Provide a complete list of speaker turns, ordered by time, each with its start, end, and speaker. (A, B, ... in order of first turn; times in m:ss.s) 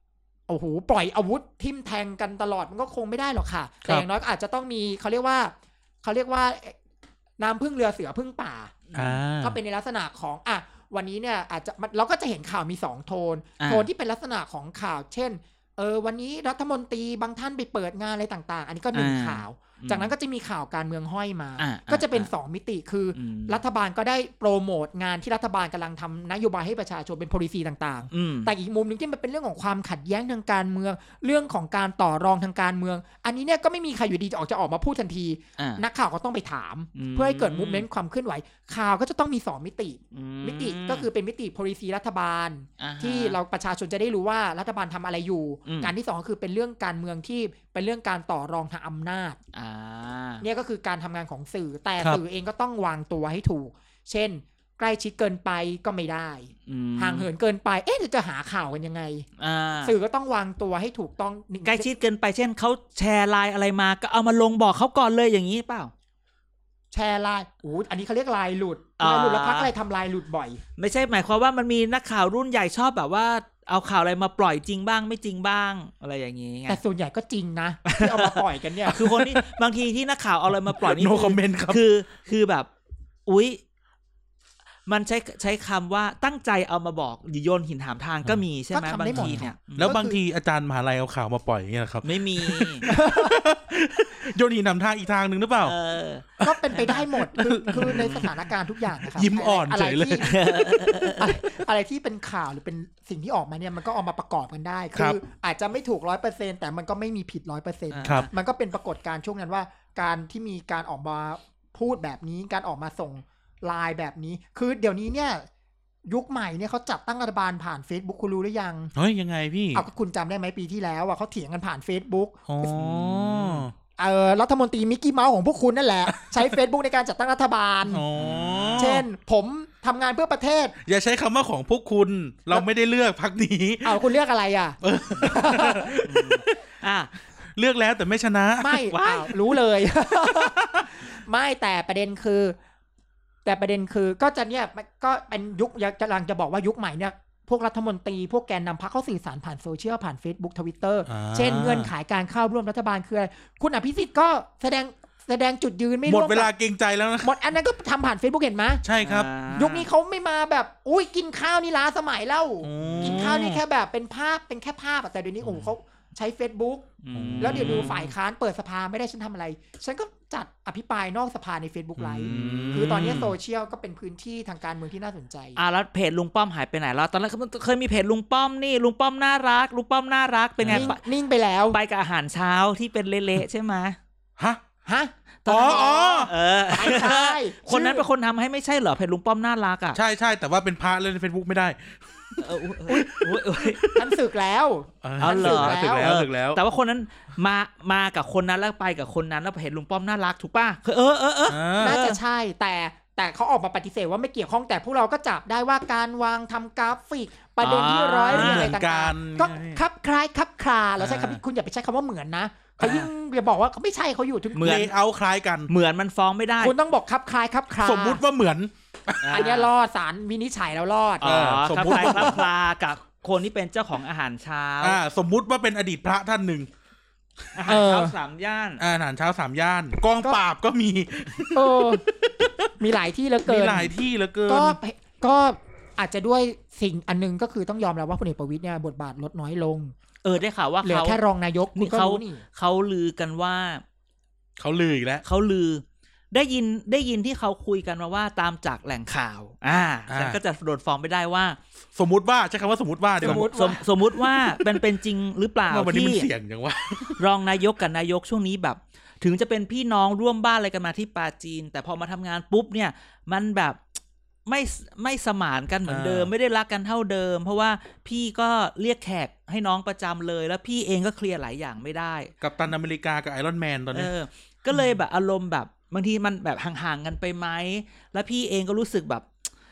0:00.5-0:06.8 A
0:07.4-0:08.8 A
0:08.9-0:09.2 B
0:09.0-0:09.6 C
0:09.4-0:49.4 A
0:13.6-0:13.9 B
0:18.9-0:20.1 B
0:21.6-0:22.3 B
0:23.1-0:23.6 B
0:28.1-0:28.5 B
0:35.6-0:35.8 B
0:37.0-0:37.9 B
0:40.1-0:41.1 B
0:42.8-0:43.4 B
0:45.6-0:45.9 B
0:49.5-0:50.4 B
0:50.4-0:59.3 A
0:56.7-0:57.3 B
0:59.4-1:00.0 B
0:59.8-1:01.9 A
1:01.6-1:05.9 B
1:06.9-1:10.6 A
1:09.0-1:09.7 B
1:10.8-1:16.8 B
1:16.7-1:19.1 A
1:17.9-1:22.7 B
1:19.0-1:19.4 C
1:20.7-1:21.8 C
1:23.3-1:23.6 B
1:24.9-1:29.9 B
1:28.7-1:30.2 A
1:29.2-1:35.8 C
1:32.0-1:32.8 B
1:32.9-1:33.4 A
1:35.6-1:37.1 B
1:36.4-1:40.4 C
1:36.4-1:40.4 A
1:37.7-1:38.3 B
1:40.2-1:41.3 B
1:41.2-1:55.5 A
1:47.9-1:48.3 B
1:56.1-1:58.9 A
1:59.0-1:59.9 C
1:59.7-2:03.0 A
2:02.5-2:03.7 C
2:02.8-2:03.6 B
2:04.0-2:08.0 A
2:06.1-2:06.6 C
2:07.9-2:09.1 C
2:08.1-2:08.9 B
2:08.8-2:10.8 A
2:10.8-2:14.1 C
2:13.8-2:16.0 A
2:14.8-2:16.6 C
2:16.0-2:17.1 B
2:17.6-2:18.9 C
2:18.6-2:22.6 A
2:18.9-2:19.3 B
2:20.3-2:20.9 C
2:23.4-2:36.5 A
2:31.1-2:31.9 C
2:36.1-2:37.4 C
2:37.2-2:38.8 A
2:38.8-2:39.3 C
2:39.0-2:39.9 B
2:39.5-2:46.9 A
2:42.6-2:43.6 C
2:42.8-2:43.3 B
2:47.0-2:48.0 B
2:47.1-2:48.1 C
2:47.4-2:55.6 A
2:52.0-2:53.4 C
2:52.3-2:53.1 B
2:55.6-3:01.0 B
3:00.6-3:01.0 C
3:00.7-3:01.8 A
3:01.7-3:04.0 B
3:04.4-3:04.6 C
3:04.9-3:08.1 A
3:05.5-3:06.3 C
3:05.5-3:10.0 B
3:09.9-3:14.2 C
3:12.4-3:13.8 B
3:13.9-3:16.1 A
3:15.0-3:16.6 C
3:15.2-3:22.2 B
3:21.5-3:22.0 C
3:21.8-3:34.9 A
3:27.6-3:28.7 B
3:28.3-3:29.8 C
3:31.0-3:31.4 C
3:32.8-3:33.1 B
3:34.5-3:34.9 B
3:34.6-3:35.7 C
3:35.7-3:36.8 B
3:36.6-3:38.2 A
3:37.8-3:39.5 C
3:39.2-3:39.7 B
3:39.3-3:42.4 A
3:41.2-3:42.4 C
3:41.2-3:45.0 B
3:44.8-3:46.7 C
3:47.5-3:48.8 B
3:47.7-3:48.2 A
3:48.8-3:52.7 C
3:51.5-3:52.1 A
3:52.8-3:54.0 A
3:53.4-3:54.8 C
3:54.5-3:59.9 A
4:00.2-4:01.2 B
4:00.8-4:02.4 A
4:01.8-4:03.8 B
4:04.6-4:05.2 C
4:05.2-4:11.6 B
4:10.1-4:10.4 C
4:12.0-4:13.5 C
4:13.2-4:13.8 A
4:13.2-4:16.3 B
4:14.2-4:14.8 C
4:15.7-4:17.2 C
4:17.2-4:23.8 B
4:24.5-4:32.3 B
4:25.9-4:26.3 C
4:32.4-4:34.1 C
4:33.9-4:39.3 B